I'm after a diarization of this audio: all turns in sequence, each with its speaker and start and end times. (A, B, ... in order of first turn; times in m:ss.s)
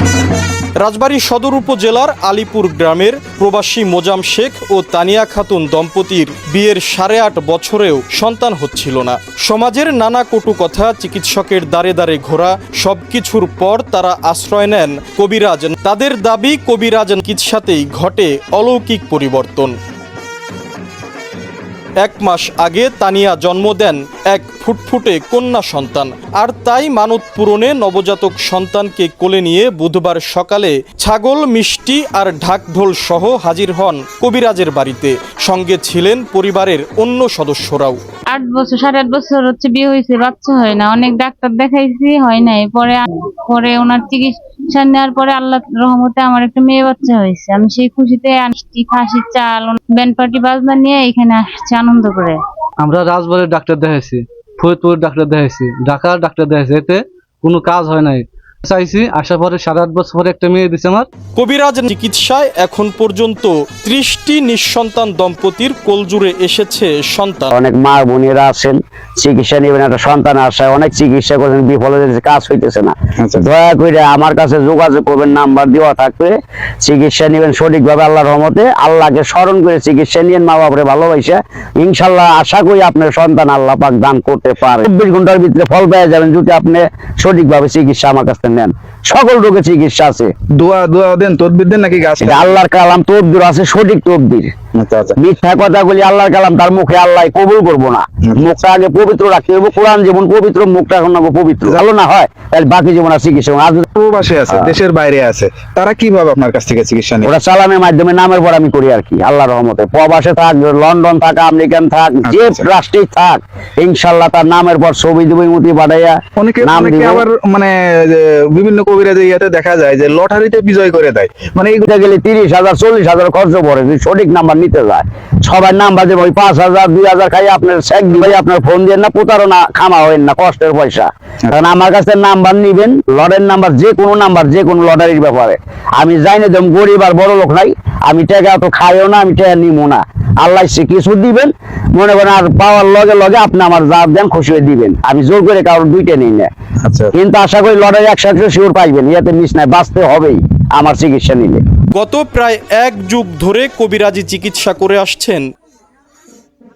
0:00.8-0:19.8 A
0:22.0-0:38.0 A
0:38.3-0:52.4 B
0:52.8-1:01.1 C
1:01.4-1:07.5 A
1:07.5-1:30.3 D
1:13.2-1:13.4 E
1:30.6-1:32.6 E
1:32.2-1:34.5 D
1:34.8-1:35.2 E
1:35.2-1:43.8 D
1:44.0-1:47.3 E
1:47.2-1:57.3 D
1:52.3-1:52.5 E
1:56.4-2:01.8 E
2:01.8-2:26.5 D
2:26.8-2:27.1 E
2:27.1-2:31.6 D
2:31.9-2:35.5 A